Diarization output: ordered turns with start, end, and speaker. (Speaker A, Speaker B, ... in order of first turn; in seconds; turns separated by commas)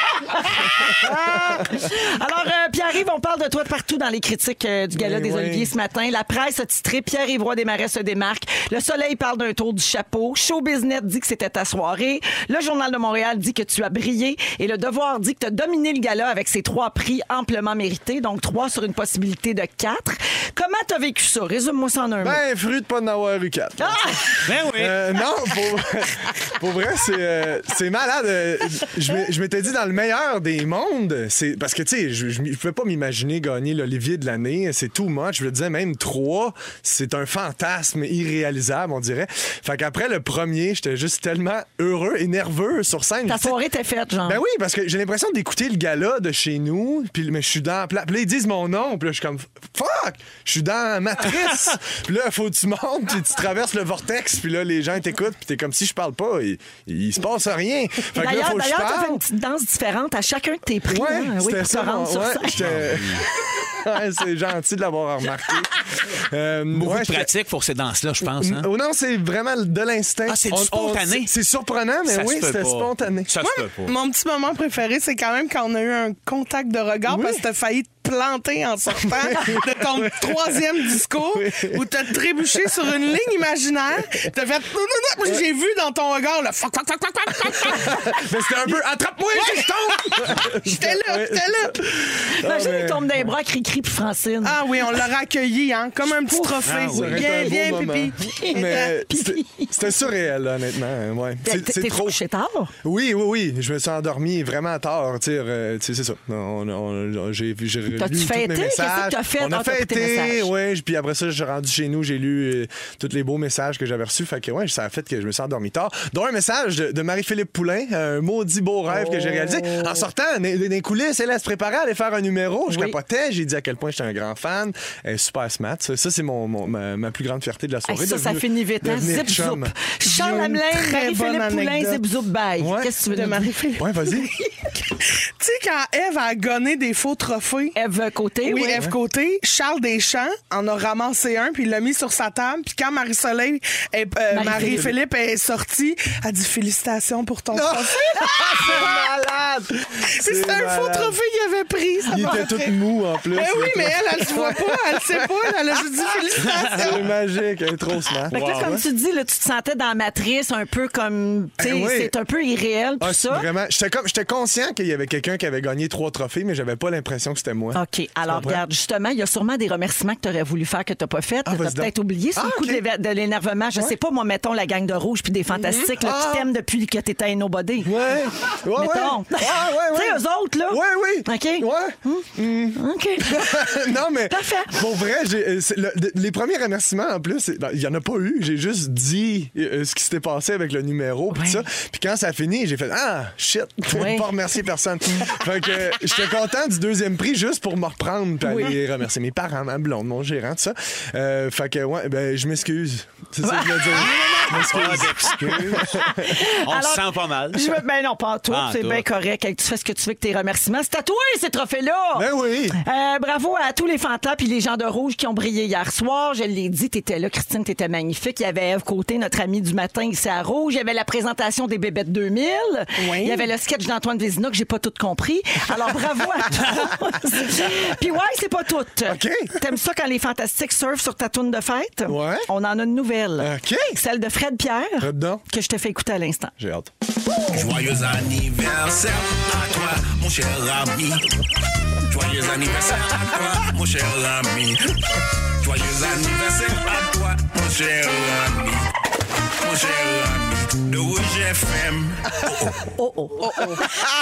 Speaker A: 0.2-22.4, Speaker B: 0.8-1.6, Speaker B: 4.9-5.7, Speaker B: 22.2-43.6, Speaker A: 23.8-24.2, Speaker C: 24.4-25.0, Speaker A: 43.3-44.4, Speaker B: 44.2-59.2, Speaker A: 58.1-62.6, Speaker B: 60.8-67.3, Speaker C: 62.5-63.2, Speaker C: 66.7-68.7, Speaker B: 68.3-73.3, Speaker C: 70.3-71.3, Speaker C: 72.1-73.9, Speaker D: 73.4-88.1, Speaker B: 77.1-77.4, Speaker B: 78.9-81.8, Speaker B: 87.7-93.3, Speaker D: 89.3-91.8, Speaker A: 92.4-94.6, Speaker D: 94.4-98.9, Speaker C: 96.6-97.3, Speaker B: 96.9-102.2, Speaker A: 98.2-99.8, Speaker A: 101.4-102.7, Speaker B: 102.8-129.7, Speaker A: 108.0-110.5, Speaker A: 118.9-120.0, Speaker A: 122.7-123.0, Speaker A: 127.9-134.7, Speaker D: 130.0-132.0, Speaker B: 132.6-132.9, Speaker D: 133.1-133.9, Speaker B: 133.8-134.3, Speaker D: 135.0-137.8, Speaker A: 137.8-138.8, Speaker D: 138.4-149.0, Speaker A: 144.3-144.9, Speaker B: 147.5-151.2, Speaker D: 150.2-152.8, Speaker B: 152.1-158.8, Speaker A: 152.2-152.4, Speaker D: 153.3-157.1, Speaker C: 156.5-156.9, Speaker A: 158.3-163.5, Speaker C: 158.3-158.7, Speaker B: 161.6-162.1, Speaker B: 163.0-168.6, Speaker A: 167.7-177.9, Speaker B: 171.4-172.8, Speaker D: 175.6-175.9, Speaker B: 175.9-176.5, Speaker B: 177.8-206.4, Speaker A: 178.8-184.7, Speaker A: 191.3-191.6, Speaker A: 193.9-194.3, Speaker A: 198.4-198.8, Speaker A: 203.4-236.5, Speaker C: 204.5-207.8, Speaker C: 208.5-209.1, Speaker B: 212.1-212.8, Speaker D: 223.0-223.5, Speaker B: 229.1-229.7, Speaker B: 232.1-232.5, Speaker B: 233.4-234.0, Speaker B: 235.0-235.4, Speaker B: 236.6-236.9, Speaker E: 237.5-241.2, Speaker E: 242.1-245.0, Speaker E: 245.6-248.9, Speaker E: 249.6-252.8, Speaker A: 253.0-253.8, Speaker D: 253.4-253.8